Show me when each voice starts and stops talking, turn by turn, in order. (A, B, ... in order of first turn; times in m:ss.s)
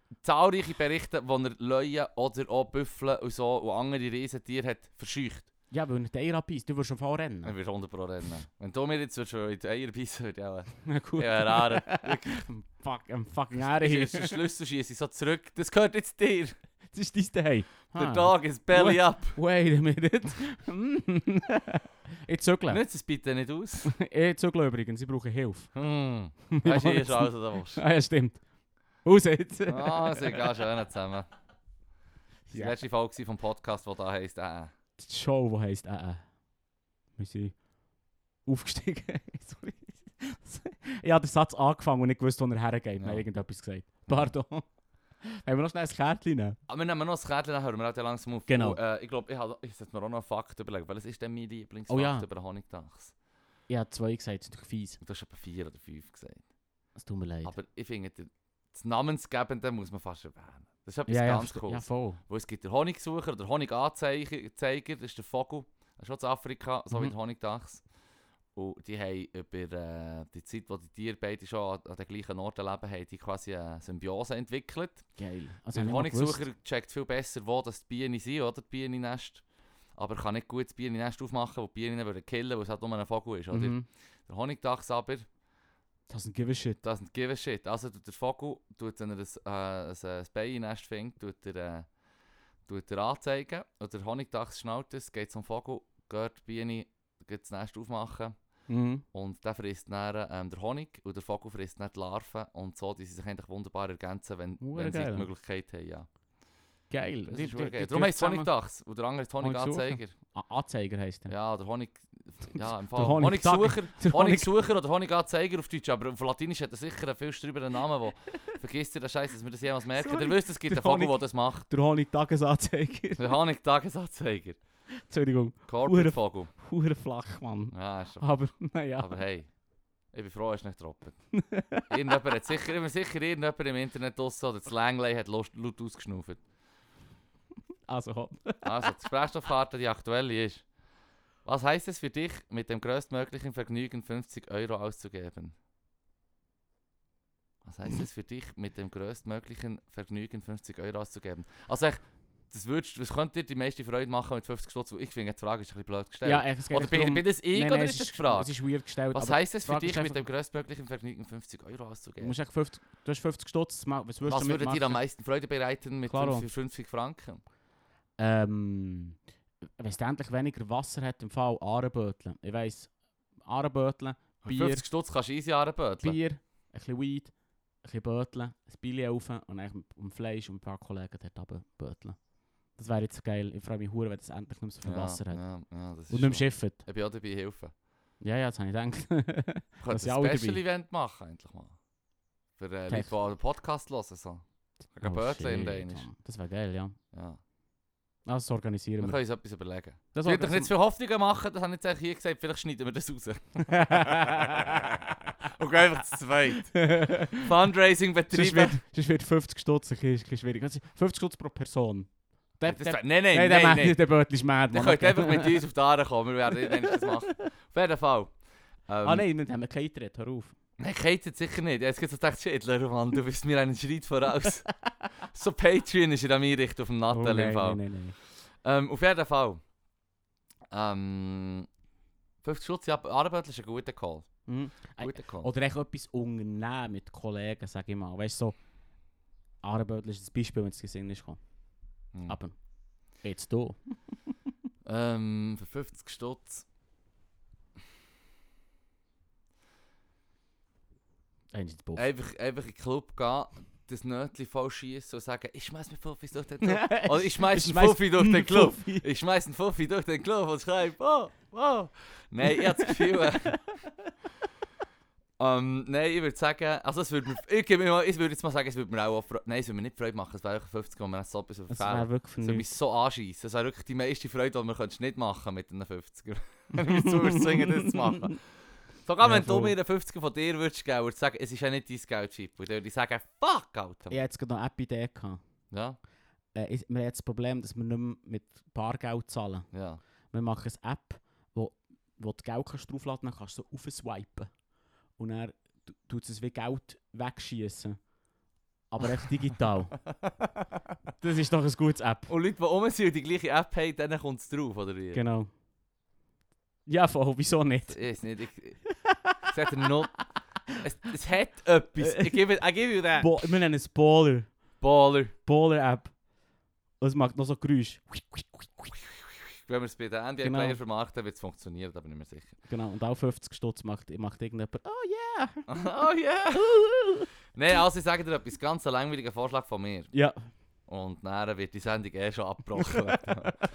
0:00.2-0:05.5 A
0:05.7-0:07.6 B
0:07.4-0:12.5 A
0:10.8-0:14.4 B
0:13.6-0:16.6 A
0:16.9-0:22.8 B
0:17.9-0:19.4 A
0:22.7-0:23.9 A
0:23.8-0:25.7 B
0:25.7-0:27.8 A
0:26.5-0:28.4 B
0:29.0-0:30.5 B
0:29.7-0:31.3 A
0:32.5-0:32.8 B
0:32.5-0:34.7 A
0:35.0-0:36.2 B
0:37.2-0:37.6 B
0:38.4-0:44.7 B
0:43.0-0:43.2 A
0:45.2-0:46.6 B
0:46.7-0:53.1 A
0:48.5-0:48.8 B
0:51.9-0:52.2 B
0:53.7-0:55.0 B
0:55.0-0:56.4 A
0:57.0-0:57.5 B
0:57.4-1:07.8 A
1:01.1-1:02.2 B
1:08.5-1:15.0 A
1:15.2-1:16.4 B
1:15.7-1:19.4 A
1:20.0-1:25.2 A
1:23.5-1:23.8 B
1:26.1-1:26.8 B
1:26.8-1:31.9 A
1:32.7-1:38.3 A
1:38.7-1:39.0 B
1:39.1-1:46.1 A
1:44.6-1:45.3 B
1:46.9-1:48.5 B
1:47.3-1:50.1 A
1:49.4-1:51.3 B
1:51.3-2:01.7 A
1:52.9-1:54.5 B
2:00.0-2:03.4 B
2:03.2-2:04.6 A
2:05.0-2:09.2 B
2:05.7-2:06.5 A
2:07.7-2:08.3 A
2:09.0-2:09.5 A
2:10.1-2:11.2 A
2:11.3-2:11.9 B
2:11.9-2:16.4 A
2:17.9-2:19.0 B
2:18.6-2:20.6 A
2:21.4-2:25.5 A
2:27.6-2:38.5 A
2:36.2-2:40.2 B
2:39.1-2:42.4 A
2:42.2-2:45.0 B
2:44.2-2:47.4 A
2:46.0-2:46.5 B
2:48.2-2:49.2 B
2:49.8-2:52.9 B
2:53.4-2:54.8 B
2:54.4-2:56.2 A
2:56.0-3:02.2 B
3:02.7-3:05.4 B
3:04.8-3:07.7 A
3:06.1-3:06.8 B
3:08.2-3:10.6 B
3:09.8-3:11.8 A
3:12.6-3:16.0 A
3:15.0-3:17.0 B
3:17.1-3:17.4 A
3:18.2-3:19.2 B
3:19.0-3:28.8 A
3:20.1-3:20.7 B
3:23.6-3:25.3 B
3:26.6-3:27.5 B
3:28.3-3:35.6 B
3:32.6-3:34.0 A
3:34.7-3:38.3 A
3:36.6-3:37.3 B
3:38.9-3:39.2 A
3:39.0-3:40.5 B
3:40.8-3:44.7 A
3:44.5-3:44.8 B
3:45.2-3:49.6 A
3:47.1-3:48.2 B
3:50.7-3:51.7 A
3:52.4-3:54.3 A
3:54.5-3:58.6 B
3:55.0-3:55.5 A
3:59.6-4:01.4 B
4:02.1-4:02.4 A
4:02.3-4:02.6 B
4:03.2-4:04.0 B
4:04.8-4:06.6 A
4:11.5-4:12.0 B
4:12.0-4:23.6 A
4:16.6-4:19.0 B
4:22.5-4:23.5 B
4:25.4-4:38.4 A
4:31.7-4:32.7 B
4:36.8-4:38.3 B
4:39.0-4:44.2 A
4:39.2-4:39.7 B
4:44.1-4:45.4 B
4:45.7-4:46.0 A
4:46.5-4:49.7 B
4:49.7-4:50.0 A
4:50.3-4:54.5 B
4:55.2-4:58.0 B
4:58.9-5:00.0 B
5:00.1-5:00.6 A
5:01.2-5:02.3 B
5:02.3-5:05.2 A
5:05.1-5:05.5 B
5:06.9-5:08.0 B
5:07.9-5:08.9 A
5:09.0-5:09.9 B
5:09.4-5:10.2 A
5:10.8-5:13.3 A
5:12.0-5:12.3 B
5:13.2-5:14.5 B
5:14.8-5:15.3 A
5:15.4-5:16.1 B
5:17.0-5:19.0 B
5:19.5-5:22.5 A
5:20.4-5:20.8 B
5:22.7-5:25.7 B
5:25.7-5:26.7 A
5:26.7-5:27.2 B
5:27.5-5:30.1 A
5:30.1-5:30.4 B
5:30.9-5:33.5 A
5:32.8-5:33.6 B